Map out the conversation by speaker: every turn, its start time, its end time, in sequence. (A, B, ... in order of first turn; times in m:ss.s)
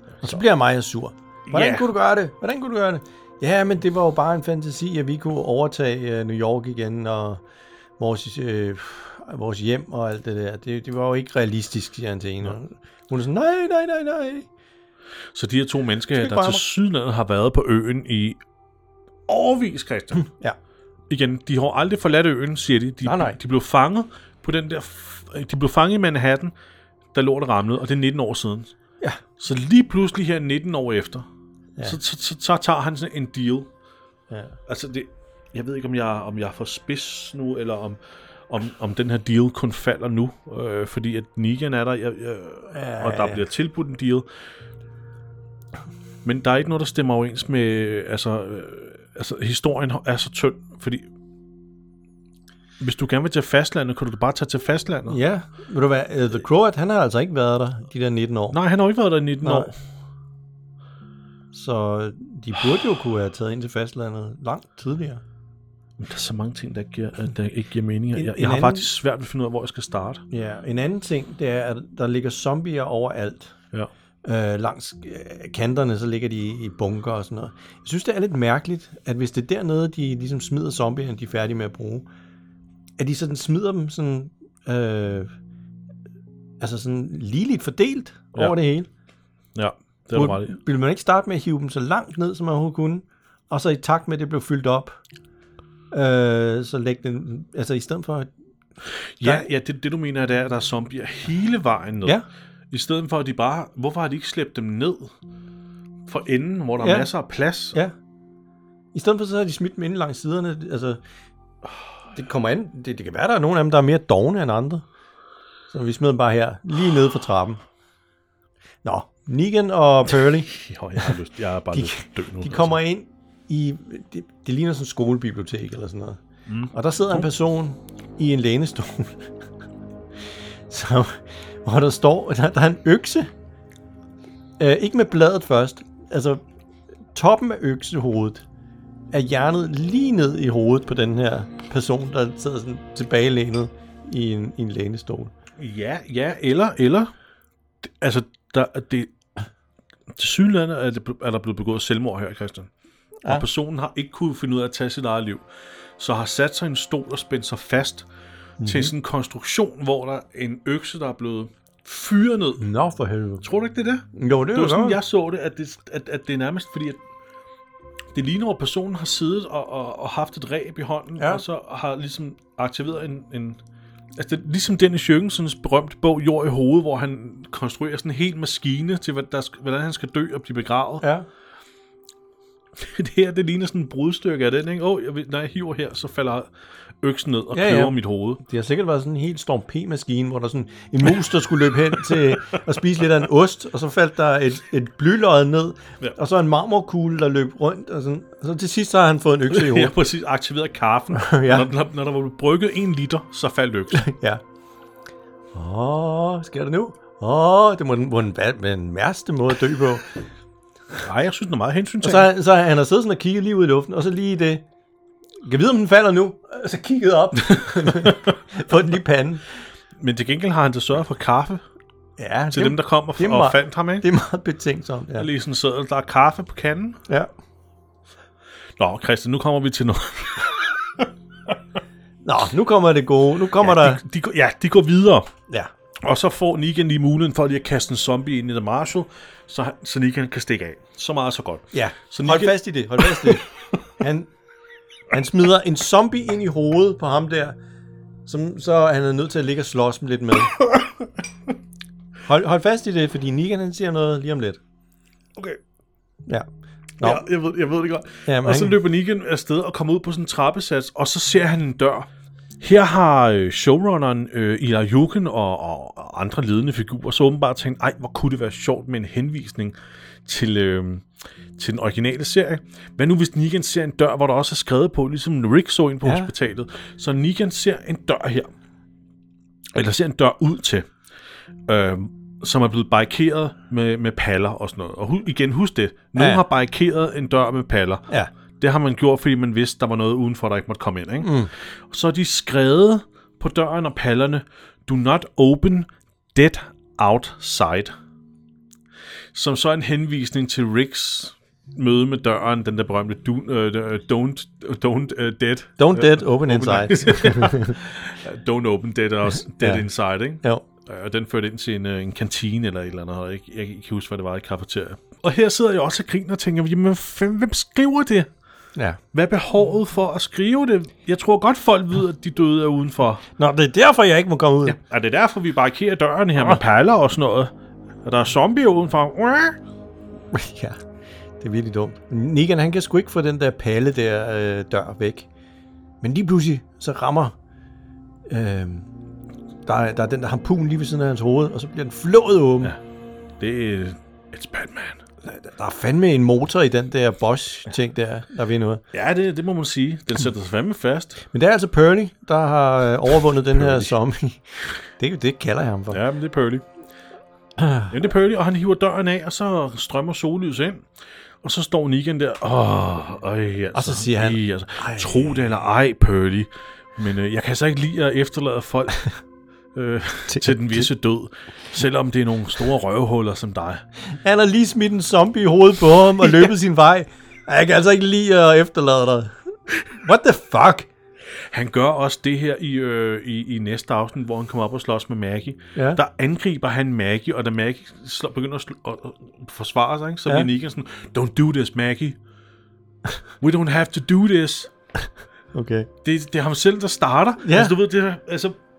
0:00.2-0:07.4 A
0:01.5-0:01.9 B
0:08.0-0:14.5 A
0:15.3-0:18.4 B
0:16.1-0:16.6 A
0:19.3-0:20.3 B
0:20.2-0:20.6 A
0:21.1-0:26.5 B
0:23.0-0:23.4 A
0:27.1-0:28.8 B
0:29.4-0:31.3 B
0:31.8-0:33.7 B
0:34.3-0:34.6 A
0:34.7-0:44.3 B
0:42.7-0:43.4 A
0:46.2-0:51.1 B
0:52.8-0:55.2 B
0:55.1-0:58.6 A
0:58.5-0:59.8 B
0:59.4-0:59.7 A
1:01.5-1:05.2 A
1:06.0-1:10.2 B
1:08.2-1:08.9 A
1:10.3-1:13.6 A
1:14.2-1:22.1 A
1:23.0-1:25.3 A
1:26.6-1:28.9 A
1:29.6-1:30.6 B
1:30.2-1:35.0 A
1:35.9-1:38.3 A
1:39.2-1:42.2 B
1:39.2-1:39.5 A
1:42.7-1:45.1 B
1:46.1-1:47.8 B
1:46.8-1:47.1 A
1:48.9-1:51.0 A
1:52.1-1:54.8 A
1:55.7-1:57.6 A
1:58.8-2:00.5 A
2:00.5-2:02.8 B
2:01.7-2:06.2 A
2:06.5-2:06.7 B
2:06.7-2:09.3 A
2:10.7-2:13.3 A
2:14.6-2:16.4 A
2:17.1-2:18.4 A
2:19.1-2:25.3 A
2:25.6-2:27.1 B
2:27.8-2:29.2 B
2:30.1-2:32.7 B
2:33.3-2:35.4 B
2:36.0-2:38.1 B
2:38.6-2:38.9 A
2:38.6-2:42.7 B
2:42.6-2:43.4 A
2:43.4-2:47.0 B
2:44.1-2:45.0 A
2:48.1-2:53.6 B
2:51.2-2:51.4 A
2:54.2-3:01.1 B
3:01.0-3:01.3 A
3:02.8-3:06.5 B
3:07.0-3:08.4 B
3:07.5-3:20.0 A
3:11.9-3:12.6 B
3:19.5-3:24.0 B
3:21.1-3:21.7 A
3:23.9-3:24.4 A
3:25.5-3:30.2 A
3:31.0-3:32.3 B
3:32.0-3:34.6 A
3:35.4-3:39.4 A
3:37.6-3:38.3 B
3:40.0-3:41.6 B
3:42.2-3:45.3 A
3:42.5-3:44.1 B
3:45.2-3:47.0 B
3:48.8-3:51.5 B
3:52.2-3:54.0 A
3:53.6-3:55.3 B
3:56.0-4:03.8 B
4:01.7-4:03.4 A
4:04.0-4:04.3 A
4:05.1-4:07.6 A
4:08.3-4:10.6 A
4:10.6-4:11.1 B
4:12.2-4:14.6 A
4:17.0-4:17.2 A
4:17.0-4:22.1 B
4:18.3-4:18.8 A
4:22.6-4:38.5 B
4:36.0-4:36.3 A
4:39.8-4:40.9 B
4:41.7-4:48.1 B
4:46.2-4:46.4 A
4:48.6-4:57.9 B
4:51.2-4:51.5 A
4:59.3-5:18.3 B
5:05.8-5:07.8 A
5:09.6-5:09.9 A
5:18.8-5:19.0 A
5:19.1-5:23.2 B
5:23.4-5:24.8 A
5:24.6-5:27.5 B
5:28.0-5:29.6 B
5:30.3-5:30.8 A
5:31.4-5:35.3 A
5:36.0-5:37.4 A
5:38.3-5:38.9 A
5:39.7-5:42.8 A
5:43.4-5:45.0 B
5:45.2-5:48.8 A
5:48.9-5:51.2 B
5:51.2-5:56.0 A
5:53.5-5:53.9 B
5:55.9-5:56.6 B
5:57.6-5:57.9 A
5:57.9-6:00.9 B
6:01.4-6:09.2 B
6:03.7-6:05.4 A
6:09.7-6:13.8 B
6:10.3-6:10.9 A
6:14.0-6:20.9 A
6:21.5-6:32.2 B
6:25.8-6:26.0 A
6:33.4-6:34.7 B
6:35.5-6:35.9 A
6:36.0-6:38.6 B
6:37.4-6:37.8 A